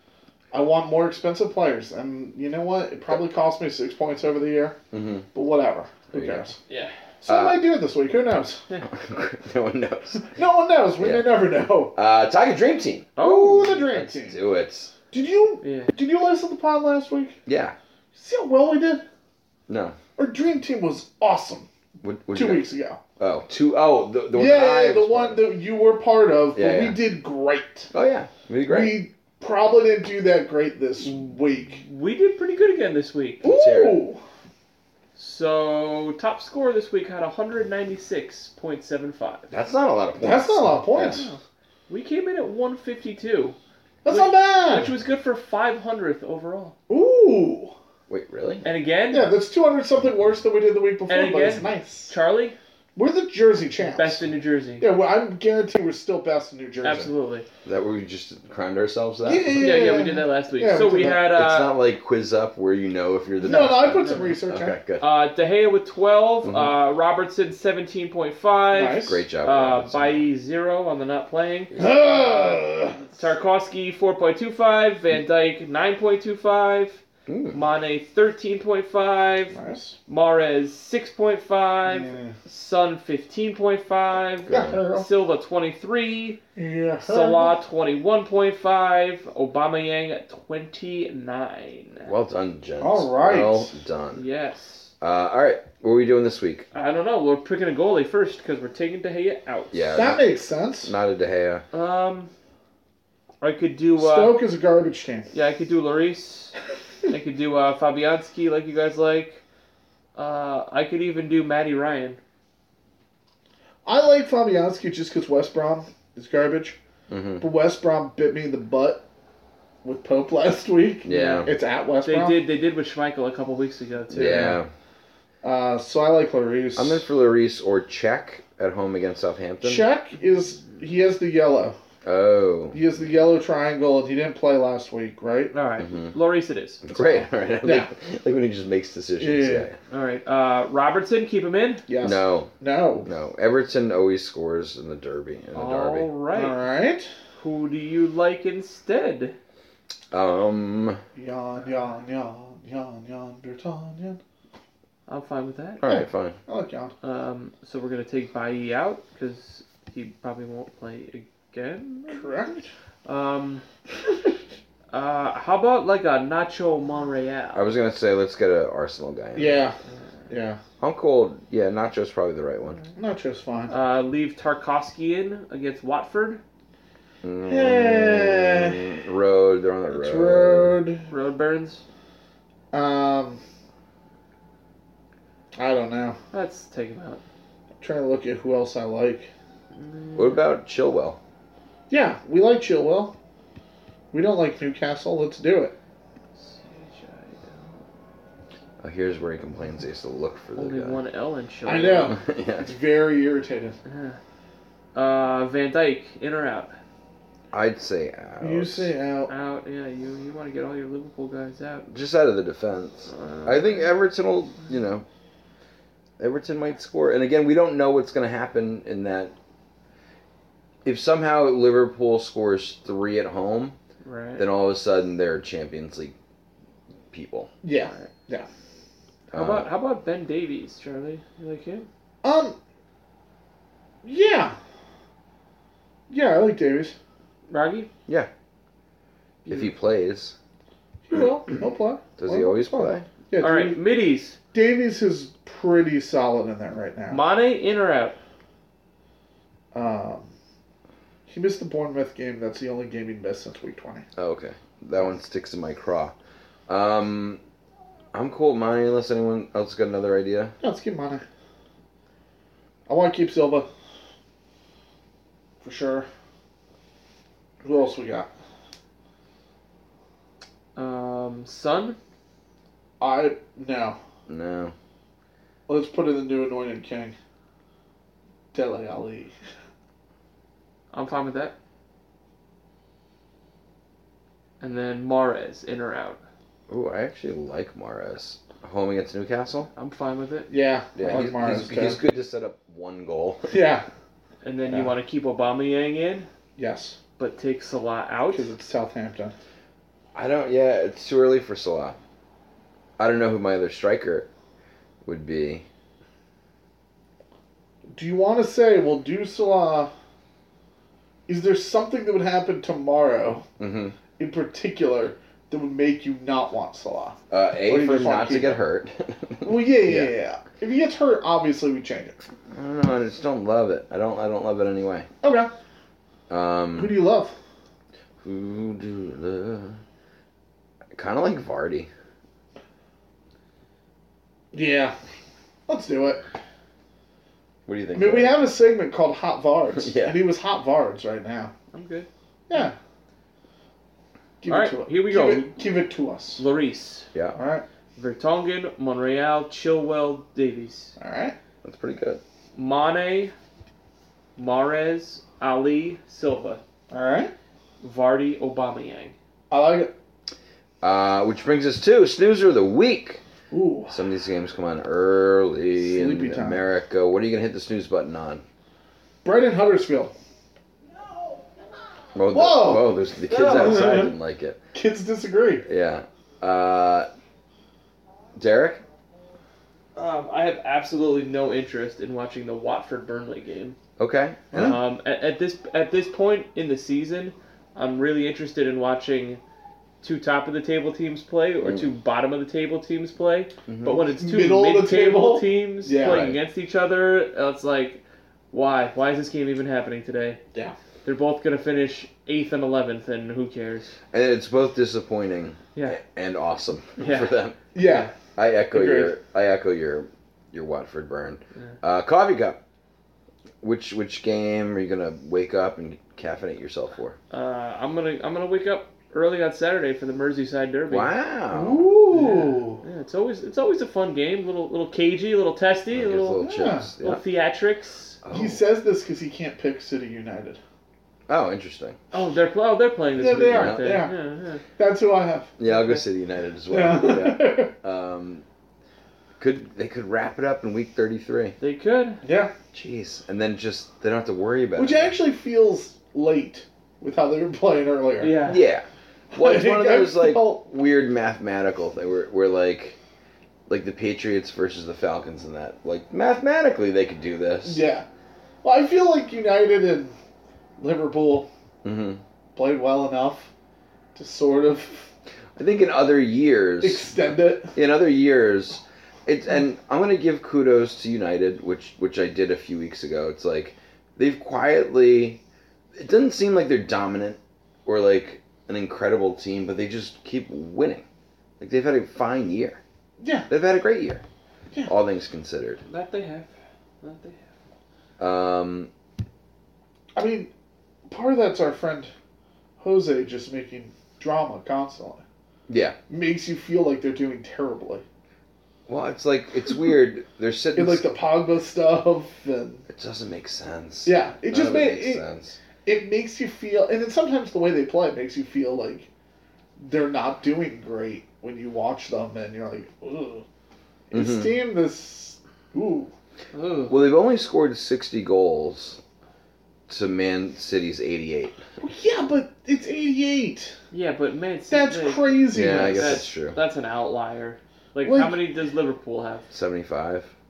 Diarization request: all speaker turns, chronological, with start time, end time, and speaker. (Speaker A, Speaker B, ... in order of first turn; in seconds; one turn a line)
Speaker A: 0.5-4.8
Speaker B: 4.9-5.3
Speaker A: 5.3-6.6
Speaker B: 6.1-6.5
Speaker C: 6.7-6.9
Speaker A: 7.2-8.6
Speaker B: 7.3-7.7
Speaker B: 8.8-10.3
Speaker A: 10.3-11.9
Speaker B: 11.0-13.1
Speaker C: 13.2-13.9
Speaker A: 13.2-14.4
Speaker B: 13.9-14.9
Speaker A: 15.1-17.4
Speaker C: 15.6-15.9
Speaker B: 17.4-17.8
Speaker A: 18.1-19.0
Speaker B: 19.7-20.0
Speaker A: 20.2-21.7
Speaker B: 22.0-22.7
Speaker A: 22.3-23.0
Speaker B: 23.2-25.5
Speaker A: 24.3-27.9
Speaker B: 26.5-27.0
Speaker B: 27.9-29.0
Speaker A: 28.7-31.8
Speaker C: 31.8-33.4
Speaker B: 33.4-34.0
Speaker A: 33.4-34.2
Speaker C: 35.1-39.5
Speaker B: 39.5-41.2
Speaker A: 40.2-41.3
Speaker C: 41.0-46.8
Speaker A: 44.0-44.9
Speaker A: 46.9-47.7
Speaker B: 48.1-48.6
Speaker C: 48.6-49.3
Speaker A: 49.1-52.1
Speaker C: 51.1-52.6
Speaker A: 53.0-54.2
Speaker C: 53.8-54.9
Speaker A: 54.8-57.1
Speaker C: 56.8-57.5
Speaker B: 57.6-59.9
Speaker A: 59.2-61.3
Speaker C: 59.5-61.7
Speaker B: 61.3-65.0
Speaker A: 63.4-64.8
Speaker C: 63.5-64.3
Speaker C: 65.0-77.0
Speaker B: 66.4-66.7
Speaker A: 68.7-69.2
Speaker B: 69.0-70.2
Speaker A: 71.7-73.0
Speaker B: 77.3-77.6
Speaker C: 77.5-79.5
Speaker A: 79.5-80.0
Speaker C: 80.1-86.4
Speaker A: 81.8-82.3
Speaker B: 84.5-84.8
Speaker A: 84.5-85.1
Speaker A: 86.5-87.6
Speaker C: 87.0-92.1
Speaker B: 92.0-94.2
Speaker A: 92.8-93.7
Speaker C: 94.1-94.9
Speaker B: 95.0-96.7
Speaker C: 96.7-100.0
Speaker B: 99.7-100.3
Speaker A: 99.9-100.9
Speaker B: 100.8-101.6
Speaker C: 101.7-102.3
Speaker C: 103.4-104.4
Speaker A: 104.0-105.3
Speaker C: 105.3-106.5
Speaker C: 107.0-109.4
Speaker C: 110.1-112.2
Speaker A: 113.8-116.8
Speaker B: 117.1-117.4
Speaker A: 117.4-119.0
Speaker A: 119.8-122.4
Speaker B: 121.0-121.5
Speaker C: 121.1-121.5
Speaker C: 122.0-124.6
Speaker B: 124.1-124.7
Speaker A: 125.4-127.0
Speaker B: 126.8-129.8
Speaker A: 129.6-131.8
Speaker B: 132.0-132.8
Speaker A: 132.7-135.5
Speaker C: 135.5-136.9
Speaker B: 135.8-136.1
Speaker B: 136.8-139.8
Speaker A: 137.6-137.9
Speaker A: 139.2-139.7
Speaker C: 139.9-141.8
Speaker A: 141.9-143.1
Speaker B: 142.0-142.5
Speaker B: 143.0-146.1
Speaker C: 145.5-146.6
Speaker A: 146.3-147.1
Speaker C: 147.4-149.4
Speaker B: 150.1-151.0
Speaker A: 151.1-154.2
Speaker C: 155.1-155.8
Speaker B: 155.8-156.4
Speaker A: 155.9-156.9
Speaker C: 157.0-162.4
Speaker A: 162.1-162.7
Speaker C: 163.1-163.6
Speaker C: 164.9-167.7
Speaker B: 167.5-169.6
Speaker A: 169.3-169.7
Speaker A: 170.3-170.6
Speaker B: 170.8-172.8
Speaker A: 172.9-173.7
Speaker C: 173.7-176.4
Speaker B: 177.2-180.8
Speaker A: 177.4-178.8
Speaker A: 179.9-181.1
Speaker C: 181.1-181.8
Speaker A: 182.7-183.4
Speaker A: 185.5-186.2
Speaker C: 186.3-187.2
Speaker A: 187.8-189.3
Speaker C: 189.7-190.4
Speaker B: 190.1-191.2
Speaker A: 191.9-193.2
Speaker A: 194.1-195.8
Speaker C: 196.3-197.8
Speaker B: 198.8-201.0
Speaker C: 200.6-202.2
Speaker A: 201.7-203.8
Speaker B: 202.1-202.7
Speaker C: 203.8-204.2
Speaker C: 204.9-206.8
Speaker B: 207.5-208.9
Speaker A: 208.4-209.3
Speaker C: 209.3-211.9
Speaker B: 211.9-215.1
Speaker C: 213.1-213.8
Speaker B: 216.2-219.3
Speaker B: 220.8-223.8
Speaker C: 224.0-224.4
Speaker B: 224.4-226.2
Speaker B: 227.1-227.5
Speaker A: 227.6-228.5
Speaker B: 229.3-229.7
Speaker C: 229.3-231.9
Speaker A: 232.2-232.6
Speaker A: 234.0-234.6
Speaker A: 236.1-236.9
Speaker C: 237.5-237.9
Speaker B: 239.4-240.3
Speaker A: 241.1-243.8
Speaker B: 242.2-243.1
Speaker C: 243.4-244.4
Speaker A: 244.5-247.2
Speaker C: 247.1-248.2
Speaker A: 249.7-250.3
Speaker A: 251.3-254.1
Speaker B: 254.2-256.1
Speaker B: 256.7-257.4
Speaker B: 258.1-260.6
Speaker A: 260.6-261.2
Speaker A: 262.9-263.7
Speaker A: 265.6-266.1
Speaker A: 267.6-268.3
Speaker C: 270.7-272.0
Speaker A: 273.0-274.0
Speaker B: 274.3-274.7
Speaker A: 275.7-277.1
Speaker A: 278.5-279.3
Speaker C: 280.9-281.5
Speaker C: 284.6-286.2
Speaker B: 286.7-289.7
Speaker C: 289.8-290.5
Speaker A: 290.5-292.0
Speaker B: 290.9-293.5
Speaker A: 293.5-293.8
Speaker C: 294.4-296.3
Speaker A: 296.6-297.0
Speaker C: 297.2-298.5
Speaker A: 298.3-299.3
Speaker B: 300.1-302.0
Speaker B: 303.0-304.3
Speaker B: 305.0-305.6
Speaker A: 307.9-309.9
Speaker A: 311.3-313.4
Speaker B: 313.6-313.9
Speaker A: 314.2-318.6
Speaker B: 317.3-320.1
Speaker A: 319.4-322.3
Speaker B: 322.5-325.1
Speaker A: 325.2-325.5
Speaker B: 326.3-326.9
Speaker A: 326.7-327.3
Speaker B: 328.2-329.8
Speaker B: 330.9-331.9
Speaker A: 334.5-334.9
Speaker A: 335.7-336.2
Speaker B: 337.6-338.4
Speaker A: 337.9-341.5
Speaker B: 339.8-340.2
Speaker C: 341.7-342.1
Speaker A: 342.5-342.8
Speaker A: 344.4-346.4
Speaker C: 344.5-345.6
Speaker C: 346.4-347.1
Speaker A: 347.4-347.6
Speaker C: 347.9-350.9
Speaker A: 351.0-351.4
Speaker B: 351.6-352.2
Speaker C: 352.6-353.3
Speaker C: 354.4-356.6
Speaker A: 356.9-357.3
Speaker C: 357.8-359.1
Speaker A: 359.5-359.9
Speaker B: 360.8-363.2
Speaker A: 363.5-364.0
Speaker B: 363.9-368.4
Speaker A: 365.8-366.6
Speaker A: 369.2-370.1
Speaker B: 372.1-374.6
Speaker A: 372.3-374.1
Speaker C: 373.3-374.1
Speaker A: 374.7-375.6
Speaker B: 375.6-377.1
Speaker B: 378.4-378.8
Speaker C: 379.9-383.8
Speaker B: 384.0-384.8
Speaker A: 384.5-384.8
Speaker C: 384.6-389.4
Speaker C: 390.0-400.4
Speaker B: 393.7-394.0
Speaker A: 394.1-396.3
Speaker B: 396.0-396.4
Speaker C: 401.0-403.9
Speaker B: 404.1-407.6
Speaker C: 405.7-406.0
Speaker C: 407.0-408.1
Speaker A: 407.7-408.1
Speaker B: 408.3-412.6
Speaker A: 408.7-409.2
Speaker B: 413.6-417.2
Speaker C: 417.3-421.1
Speaker B: 420.9-421.8
Speaker A: 421.5-422.8
Speaker C: 422.1-426.4
Speaker B: 425.9-427.2
Speaker A: 426.4-426.9
Speaker C: 427.0-428.2
Speaker B: 428.2-428.6
Speaker A: 428.3-430.6
Speaker B: 431.3-432.0
Speaker C: 432.1-434.6
Speaker A: 433.1-434.1
Speaker B: 433.5-434.0
Speaker A: 434.8-435.5
Speaker B: 435.6-438.4
Speaker C: 435.6-435.9
Speaker A: 436.7-437.7
Speaker B: 439.4-441.6
Speaker C: 441.6-442.2
Speaker A: 442.2-442.5
Speaker B: 442.7-445.1
Speaker A: 444.8-448.5
Speaker C: 448.2-448.6
Speaker B: 448.5-453.0
Speaker A: 449.3-450.6
Speaker B: 453.7-457.8
Speaker A: 457.6-458.1
Speaker A: 458.6-460.1
Speaker A: 460.8-461.5
Speaker B: 461.8-462.2
Speaker A: 462.5-463.5
Speaker A: 464.1-465.1
Speaker B: 465.6-475.4
Speaker A: 466.8-467.8
Speaker B: 475.9-481.0
Speaker B: 481.6-482.8
Speaker A: 483.2-483.5
Speaker B: 483.5-484.2
Speaker B: 484.9-485.8
Speaker C: 485.9-486.5
Speaker C: 487.0-487.4
Speaker B: 488.2-488.9
Speaker A: 490.1-490.5
Speaker A: 491.1-492.1
Speaker A: 492.8-495.2
Speaker B: 495.7-496.0
Speaker A: 496.1-498.0
Speaker B: 498.9-501.1
Speaker A: 500.7-502.9
Speaker B: 502.9-505.6
Speaker A: 504.0-505.2
Speaker A: 505.8-509.1
Speaker A: 509.8-513.4
Speaker A: 514.1-516.1
Speaker B: 514.1-514.5
Speaker C: 516.5-517.0
Speaker B: 516.9-519.0
Speaker B: 519.9-521.6
Speaker A: 521.8-523.8
Speaker C: 523.9-529.5
Speaker A: 524.7-526.2
Speaker B: 525.5-526.6
Speaker A: 528.0-528.4
Speaker B: 529.5-530.3